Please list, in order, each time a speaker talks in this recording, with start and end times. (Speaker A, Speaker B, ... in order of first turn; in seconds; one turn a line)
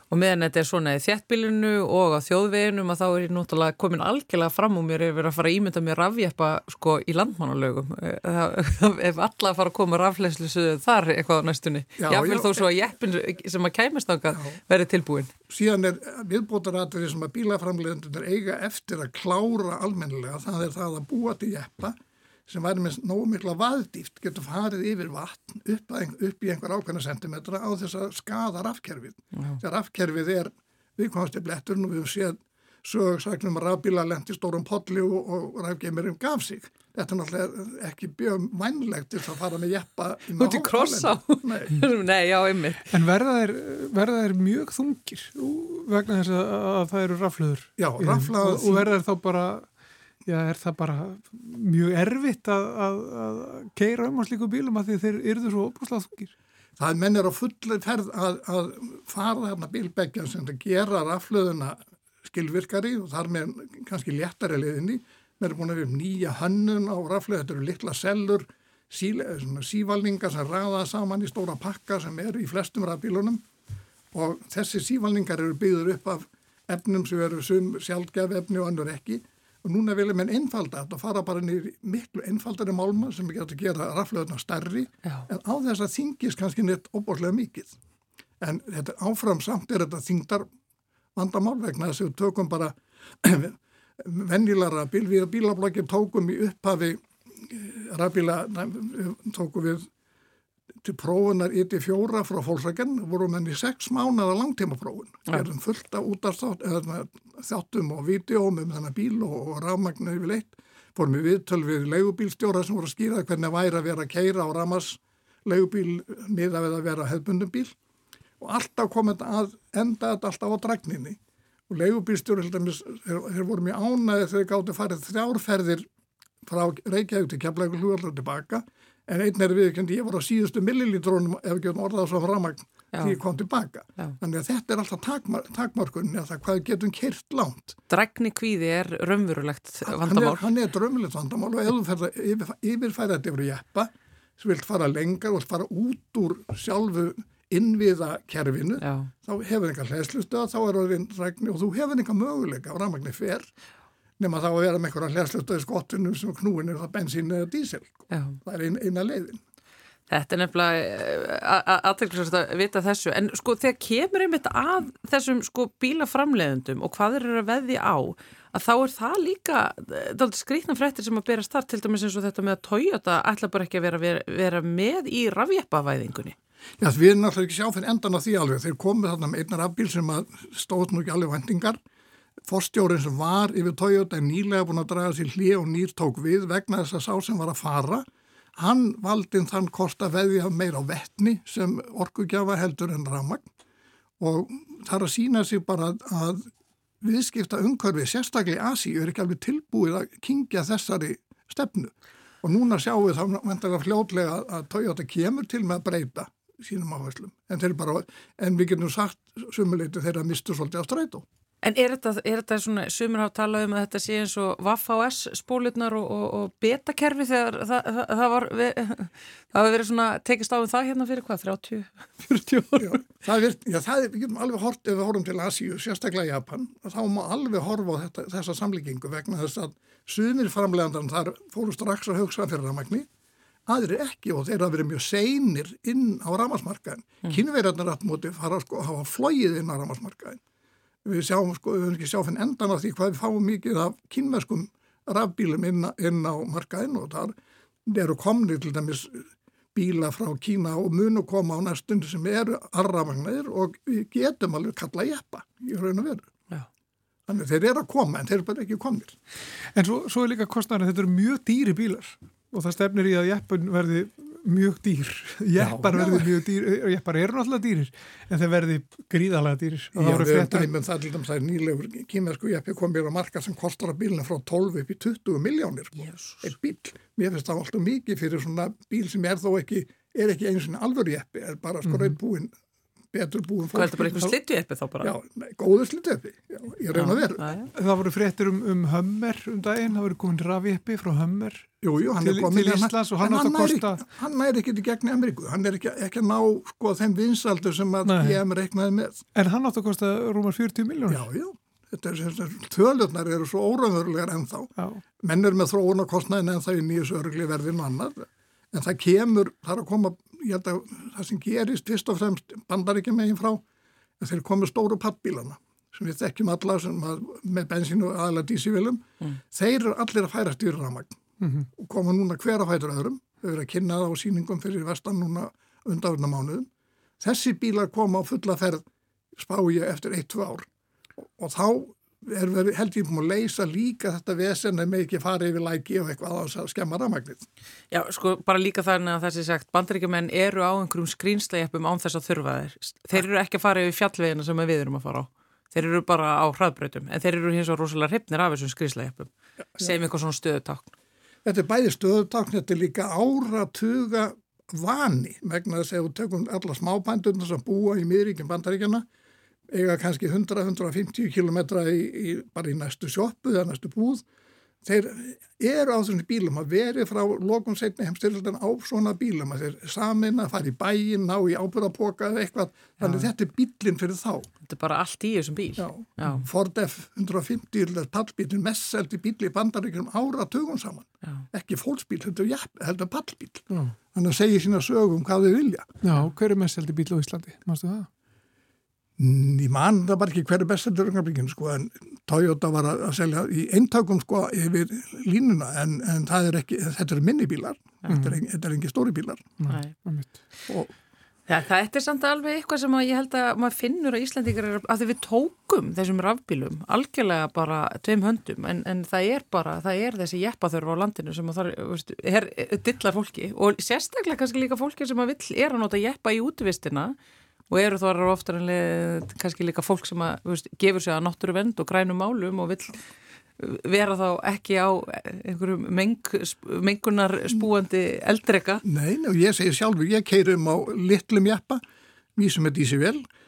Speaker A: 0.1-15.3
Speaker B: 12.0-12.7
Speaker B: 14.3-14.6
Speaker B: 15.5-41.8
Speaker A: 40.4-42.9
Speaker C: 42.9-49.7
Speaker B: 47.8-48.9
Speaker C: 50.2-56.3
Speaker B: 56.8-73.5
Speaker B: 74.1-87.8
Speaker B: 88.4-90.5
Speaker B: 91.2-99.9
Speaker B: 100.8-117.8
Speaker B: 118.4-125.9
Speaker B: 126.4-137.8
Speaker A: 132.9-133.2
Speaker A: 137.9-140.5
Speaker B: 139.8-153.5
Speaker A: 148.8-149.1
Speaker B: 154.2-159.4
Speaker A: 158.1-158.4
Speaker A: 160.1-176.4
Speaker B: 176.8-181.8
Speaker B: 182.4-193.5
Speaker B: 194.2-196.5
Speaker B: 197.0-211.2
Speaker A: 211.6-223.1
Speaker B: 222.8-233.1
Speaker B: 233.7-240.4
Speaker B: 241.1-256.3
Speaker B: 257.3-259.2
Speaker C: 259.7-270.7
Speaker B: 265.6-266.3
Speaker B: 269.9-282.5
Speaker A: 276.0-276.5
Speaker B: 283.1-284.3
Speaker A: 283.7-285.1
Speaker B: 285.0-287.5
Speaker A: 286.9-287.7
Speaker C: 287.8-294.0
Speaker B: 291.8-299.2
Speaker C: 298.1-298.4
Speaker C: 299.4-301.2
Speaker B: 301.1-313.6
Speaker B: 314.2-321.2
Speaker C: 321.4-321.7
Speaker B: 321.7-326.7
Speaker B: 327.2-328.9
Speaker B: 329.4-337.5
Speaker A: 337.9-350.9
Speaker B: 351.4-359.1
Speaker B: 359.7-364.2
Speaker B: 364.8-374.5
Speaker A: 373.0-373.3
Speaker A: 374.6-376.4
Speaker B: 375.8-385.9
Speaker C: 383.7-383.9
Speaker C: 386.0-388.1
Speaker B: 389.2-399.5
Speaker C: 398.1-398.4
Speaker C: 399.6-400.3
Speaker A: 399.7-399.9
Speaker A: 401.5-417.2
Speaker A: 417.7-423.0
Speaker A: 423.6-428.8
Speaker B: 428.8-431.8
Speaker B: 432.4-433.2